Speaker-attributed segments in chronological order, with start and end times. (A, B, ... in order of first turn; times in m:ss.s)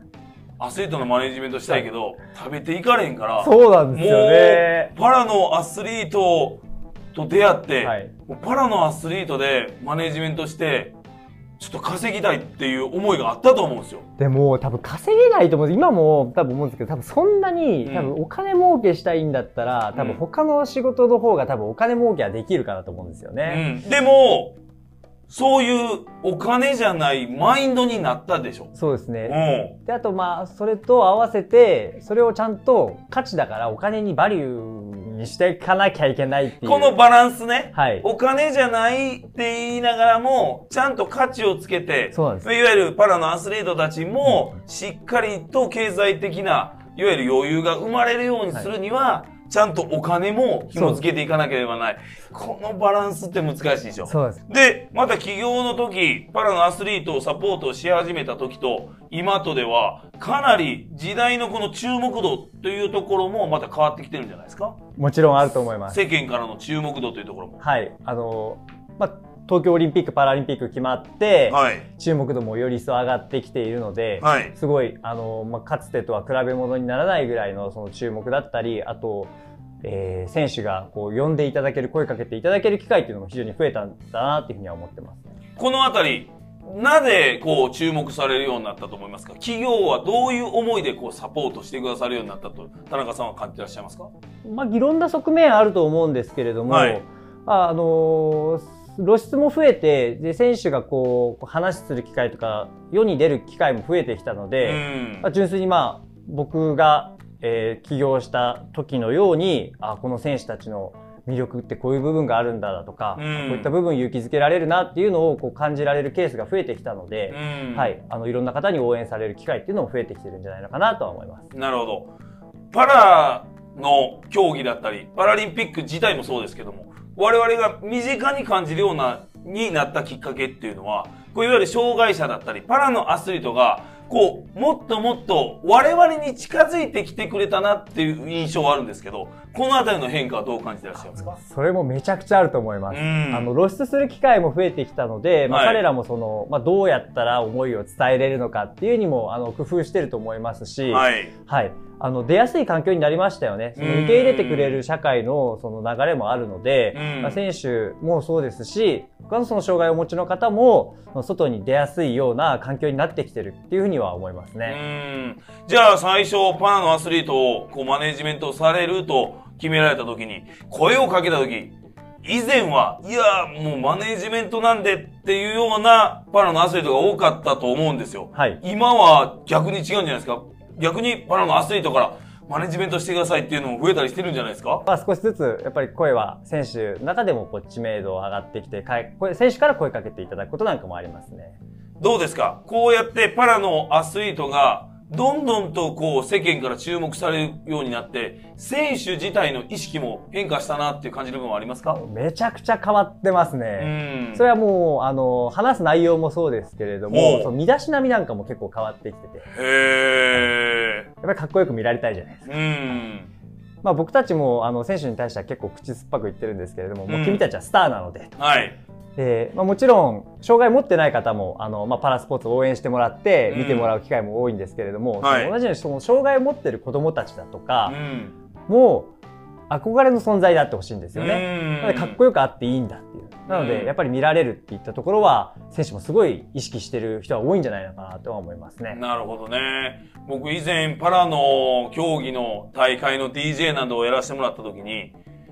0:00.6-0:06.6 A
0:03.4-0:04.9 B
0:07.1-0:10.9 A
0:07.8-0:08.1 B
0:11.6-0:14.1 A
0:14.2-0:23.6 B
0:17.8-0:18.1 A
0:19.9-0:20.2 A
0:23.5-0:24.6 A
0:25.3-0:28.7 A
0:28.7-0:36.9 B
0:29.2-0:29.8 A
0:36.6-1:04.8 A
0:37.7-0:38.0 B
0:42.1-0:42.5 B
0:44.3-0:44.5 B
0:50.7-0:51.0 B
0:54.1-0:54.4 B
1:05.0-1:06.0 B
1:05.9-1:07.6 A
1:07.6-1:25.3 B
1:11.5-1:11.9 A
1:14.2-1:14.5 A
1:25.6-1:34.1 A
1:34.4-2:01.5 B
1:36.7-1:37.0 A
1:44.6-1:45.3 A
1:53.2-1:53.7 A
1:57.3-1:57.9 A
2:01.5-2:02.1 A
2:02.7-2:21.4 A
2:21.1-2:44.8 B
2:22.9-2:23.5 A
2:25.5-2:25.8 A
2:30.9-2:31.3 A
2:33.8-2:34.8 A
2:36.9-2:37.4 A
2:44.6-3:04.8 A
2:58.4-2:58.6 B
3:04.8-3:11.6 B
3:12.0-3:22.0 A
3:21.9-3:29.5 B
3:23.8-3:24.4 A
3:27.1-3:27.5 A
3:29.5-3:31.1 A
3:31.2-3:32.5 B
3:32.5-3:33.3 A
3:33.8-3:38.4 B
3:37.1-3:37.5 A
3:38.4-3:38.8 A
3:39.2-3:48.0 B
3:43.5-3:43.9 A
3:45.2-3:45.5 A
3:47.9-3:48.4 A
3:48.7-3:49.1 B
3:49.7-3:59.0 B
3:51.1-3:52.2 A
3:53.5-3:53.9 A
3:58.9-4:05.1 A